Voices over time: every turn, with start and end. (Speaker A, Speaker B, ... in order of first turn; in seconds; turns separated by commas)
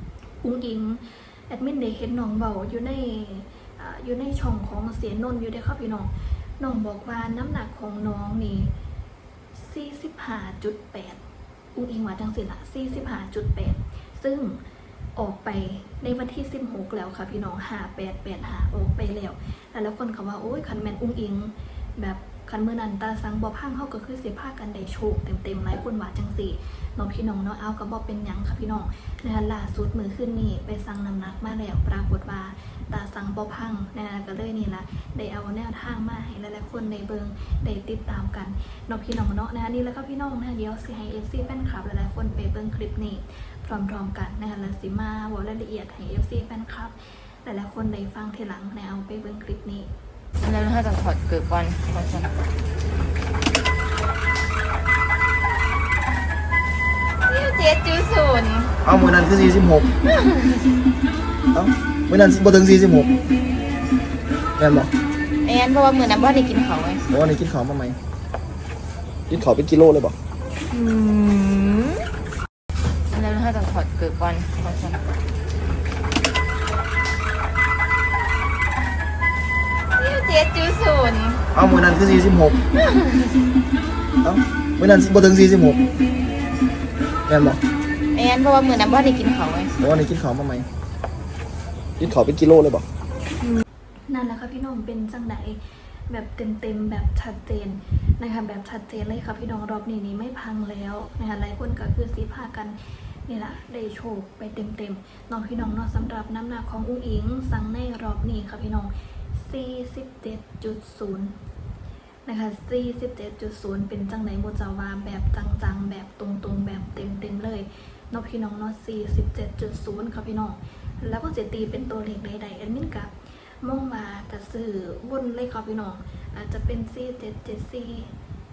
Speaker A: 0.4-8.7, Speaker A: 9.6-11.2, Speaker A: 11.7-14.6, Speaker A: 15.2-49.9, Speaker B: 50.4-52.3, Speaker B: 57.3-58.7, Speaker C: 58.8-59.9, Speaker B: 60.0-60.7, Speaker C: 61.5-63.1, Speaker C: 64.6-64.9, Speaker B: 65.4-67.1, Speaker C: 67.1-68.0, Speaker C: 69.3-70.2, Speaker B: 70.7-72.1, Speaker B: 73.1-75.0, Speaker B: 80.0-81.4, Speaker C: 81.5-82.6, Speaker B: 82.7-83.4, Speaker C: 84.2-85.8, Speaker C: 87.3-87.6, Speaker B: 88.1-89.8, Speaker C: 89.8-90.7, Speaker C: 92.0-92.9, Speaker A: 94.1-111.3, Speaker A: 112.2-128.1